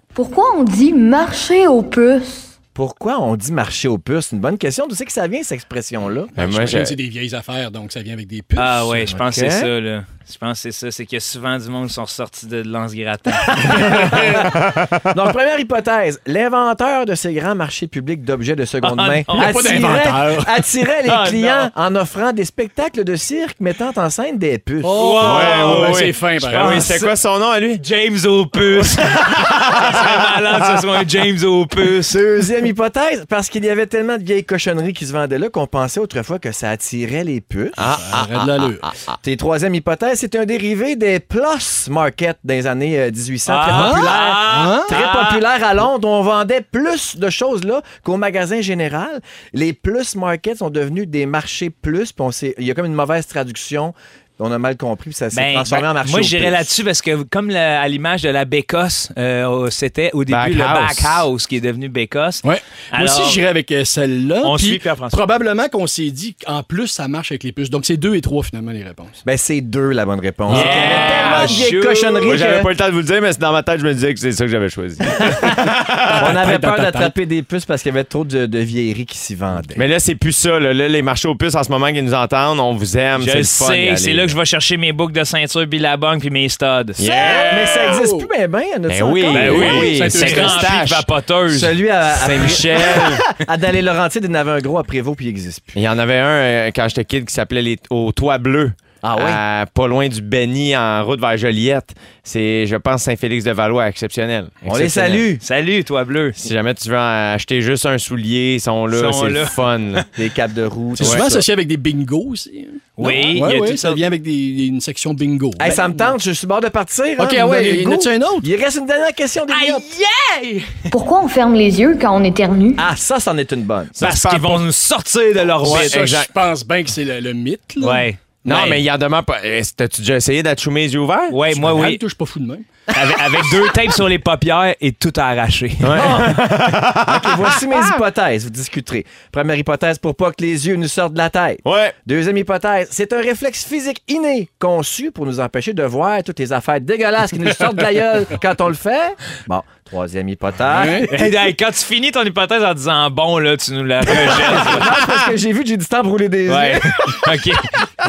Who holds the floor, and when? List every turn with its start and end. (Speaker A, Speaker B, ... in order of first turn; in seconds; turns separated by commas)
Speaker A: 0.1-2.5, Speaker B: 2.7-6.3, Speaker C: 6.3-9.2, Speaker D: 6.3-7.0, Speaker E: 8.6-14.2, Speaker C: 13.7-14.5, Speaker D: 13.9-15.1, Speaker B: 13.9-14.2, Speaker B: 15.1-25.0, Speaker E: 18.8-19.6, Speaker C: 19.3-20.6, Speaker E: 21.0-21.7, Speaker C: 24.8-27.0, Speaker E: 24.9-27.1, Speaker D: 25.2-27.8, Speaker E: 27.8-32.2, Speaker D: 28.9-30.5, Speaker B: 32.1-37.8, Speaker D: 37.7-39.2, Speaker C: 37.9-38.9, Speaker B: 39.2-56.7, Speaker E: 43.5-45.4, Speaker C: 43.7-44.9, Speaker E: 55.3-63.4, Speaker D: 60.3-61.2, Speaker C: 62.4-69.2, Speaker E: 64.4-65.2, Speaker B: 69.2-72.7, Speaker D: 70.5-71.7, Speaker E: 70.5-72.4, Speaker D: 72.2-76.3, Speaker C: 76.1-77.1, Speaker B: 76.1-79.8, Speaker D: 79.7-84.3, Speaker E: 83.2-87.0, Speaker D: 87.0-88.0, Speaker C: 87.1-88.3, Speaker B: 87.2-89.9, Speaker D: 88.9-91.1, Speaker E: 89.3-91.8, Speaker C: 89.5-90.8, Speaker B: 91.5-95.8, Speaker D: 92.2-93.2, Speaker D: 95.7-105.2, Speaker B: 99.0-99.4, Speaker B: 104.6-105.4, Speaker E: 105.4-106.4, Speaker D: 106.4-110.0, Speaker E: 108.9-110.0, Speaker B: 110.1-111.4, Speaker C: 110.9-116.1, Speaker D: 111.0-111.3, Speaker E: 113.0-114.0, Speaker B: 115.6-119.8, Speaker C: 117.2-118.5, Speaker E: 119.5-120.9, Speaker A: 120.9-122.8, Speaker B: 122.8-124.0, Speaker D: 124.0-124.7, Speaker E: 124.0-126.0, Speaker D: 125.6-126.3, Speaker C: 125.6-128.1, Speaker E: 127.8-128.8, Speaker D: 128.4-131.3, Speaker E: 131.3-132.0, Speaker C: 131.5-132.6, Speaker E: 132.9-136.2, Speaker D: 135.8-138.0, Speaker B: 135.9-151.3, Speaker D: 141.6-141.9, Speaker C: 150.7-151.1, Speaker E: 151.1-154.9, Speaker B: 154.2-157.3, Speaker E: 156.5-157.8